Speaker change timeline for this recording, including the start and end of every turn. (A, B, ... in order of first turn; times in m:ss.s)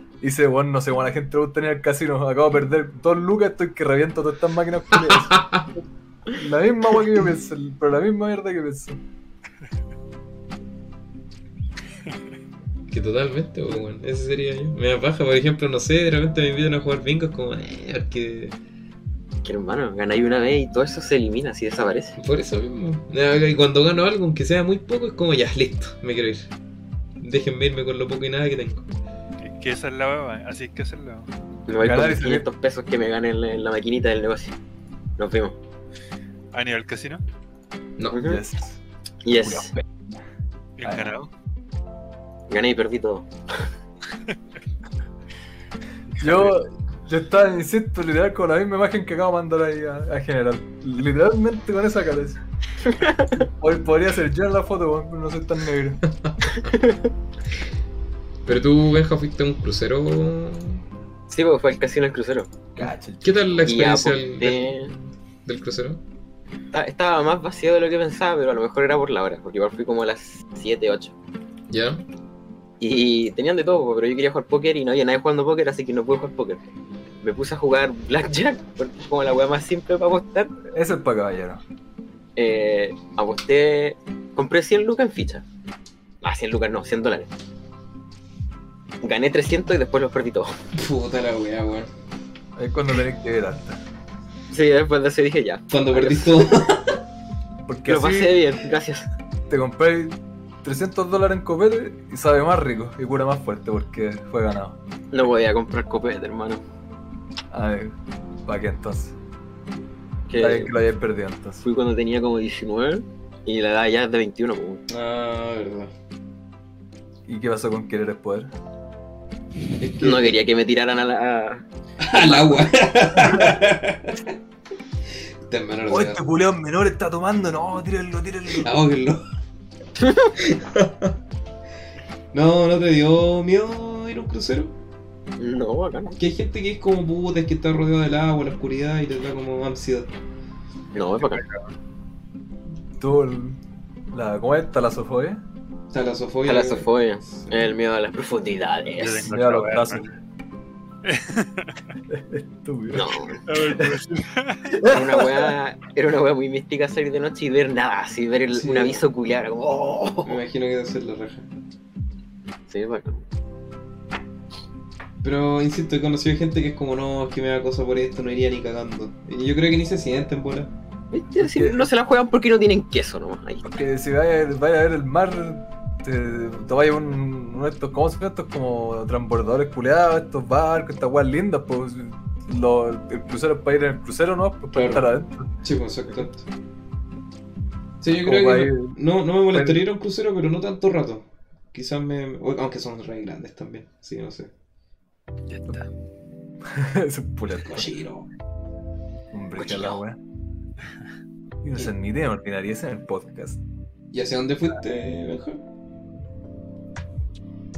0:00.2-0:09.0 A
0:05.1-0:05.7 B
0:12.9-0:18.6 B
0:19.4-0:22.2 C
0:22.2-0:26.5 B
0:27.2-0:28.9 B
0:29.4-0:31.3 D
0:31.7-0:34.6 C
0:31.8-0:32.5 A
0:35.2-0:35.6 C
0:36.5-0:37.2 D
0:38.1-0:38.4 C
0:38.2-0:38.8 A
0:39.2-0:39.7 C
0:39.4-0:40.0 A
0:40.8-0:41.3 D
0:40.8-0:41.2 A
0:42.5-0:43.3 C
0:46.2-0:52.4 A
0:52.8-0:53.4 C
0:53.3-0:56.0 A
0:56.2-0:56.6 B
0:56.6-0:57.0 C
0:58.4-1:00.8 B
1:01.3-1:02.5 C
1:02.8-1:03.4 A
1:02.8-1:06.0 B
1:03.7-1:04.9 C
1:06.7-1:11.2 C
1:11.7-1:12.0 B
1:12.8-1:16.6 C
1:17.2-1:20.6 C
1:20.7-1:21.6 A
1:22.4-1:25.4 C
1:26.2-1:27.3 C
1:29.0-1:30.6 C
1:30.7-1:31.9 B
1:32.6-1:33.8 A
1:34.5-1:36.7 C
1:35.7-1:37.0 B
1:37.7-1:38.4 A
1:37.9-1:39.1 C
1:39.5-1:44.8 A
1:45.1-1:46.6 C
1:47.5-1:49.2 A
1:50.3-1:50.7 C
1:50.4-1:51.6 A
1:51.6-1:54.8 C
1:54.9-1:55.9 B
1:57.3-1:58.5 A
1:59.8-2:00.4 B
2:00.0-2:02.7 C
2:02.0-2:04.3 B
2:05.5-2:06.2 B
2:05.9-2:08.7 A
2:08.5-2:09.2 B
2:10.0-2:10.3 C
2:10.4-2:11.1 B
2:12.3-2:14.8 B
2:15.4-2:16.2 C
2:16.2-2:20.1 B
2:20.9-2:21.4 C
2:21.2-2:21.7 D
2:23.0-2:23.6 A
2:24.1-2:25.4 A
2:25.9-2:27.6 B
2:26.4-2:29.3 C
2:29.0-2:30.2 D
2:29.3-2:30.1 A
2:31.0-2:31.8 D
2:32.1-2:34.0 A
2:32.9-2:33.4 C
2:33.5-2:34.9 D
2:34.7-2:35.5 A
2:34.8-2:40.4 C
2:38.5-2:39.0 B
2:40.2-2:41.5 B
2:42.7-2:43.2 C
2:45.2-2:50.7 B
2:51.1-2:53.7 C
2:51.4-2:51.9 A
2:53.6-3:05.5 A
3:04.7-3:05.1 B
3:05.6-3:06.5 B
3:08.0-3:14.5 B
3:08.2-3:09.0 A
3:09.5-3:09.8 A
3:15.5-3:15.9 D
3:16.6-3:17.9 A
3:17.6-3:18.3 B
3:19.3-3:20.2 A
3:19.6-3:19.9 B
3:21.6-3:23.6 A
3:24.1-3:25.6 B